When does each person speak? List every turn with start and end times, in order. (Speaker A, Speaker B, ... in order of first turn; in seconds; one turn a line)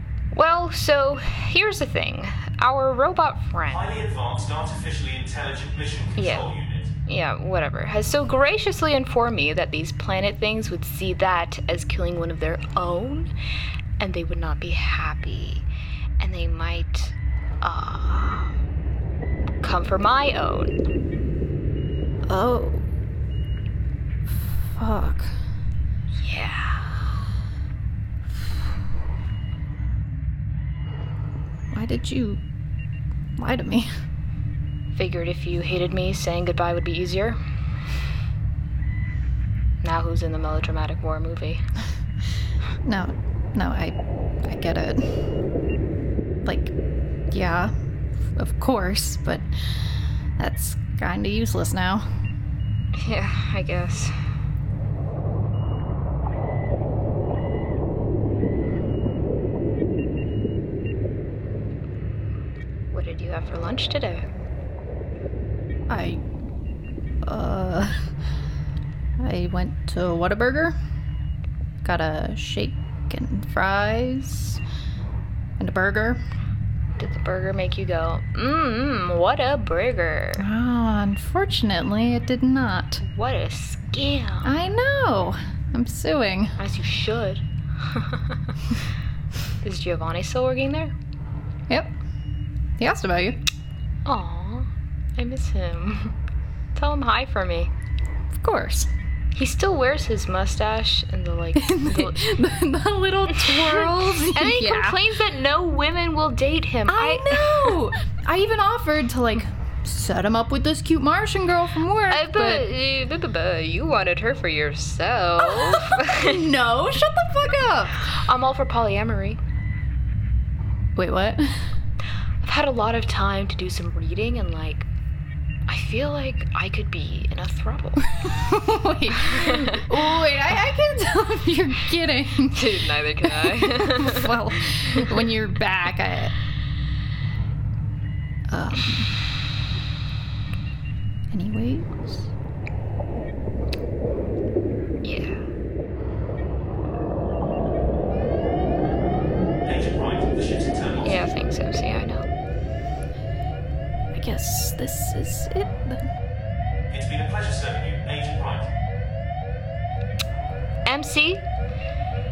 Speaker A: 0.3-3.9
Speaker B: 3.7-6.9
Speaker A: 6.2-6.5
Speaker A: 7.1-13.3
Speaker A: 14.0-15.7
Speaker A: 16.2-18.5
Speaker A: 19.6-20.8
Speaker C: 22.3-22.8
Speaker C: 24.6-25.3
Speaker A: 26.2-26.9
Speaker C: 31.7-32.4
Speaker C: 33.4-33.9
Speaker A: 34.9-37.4
Speaker A: 39.8-41.6
Speaker C: 42.8-45.2
Speaker C: 46.4-46.7
Speaker C: 47.3-47.7
Speaker C: 48.3-52.0
Speaker A: 52.9-54.1
Speaker A: 62.9-64.2
Speaker C: 65.9-66.2
Speaker C: 67.2-68.0
Speaker C: 69.2-70.7
Speaker C: 71.8-74.6
Speaker C: 75.6-76.2
Speaker A: 77.0-80.5
Speaker C: 80.4-83.0
Speaker A: 83.0-84.6
Speaker C: 84.4-86.5
Speaker A: 86.6-88.5
Speaker A: 89.6-90.9
Speaker C: 92.8-93.4
Speaker A: 94.1-96.2
Speaker A: 96.7-97.7
Speaker C: 98.3-98.9
Speaker A: 99.3-102.3
Speaker C: 101.6-105.0
Speaker A: 103.3-107.8
Speaker C: 106.9-112.7
Speaker A: 112.1-116.4
Speaker C: 115.4-118.1
Speaker A: 117.9-119.4
Speaker C: 121.0-121.6
Speaker A: 122.4-124.9
Speaker A: 125.7-128.3
Speaker C: 128.3-136.3
Speaker A: 129.2-129.9
Speaker A: 132.4-135.0
Speaker C: 138.5-139.1
Speaker C: 141.3-142.3
Speaker A: 145.0-145.4
Speaker B: 149.7-151.2
Speaker A: 151.0-152.2
Speaker C: 154.1-156.1
Speaker B: 156.9-158.7
Speaker A: 160.8-161.4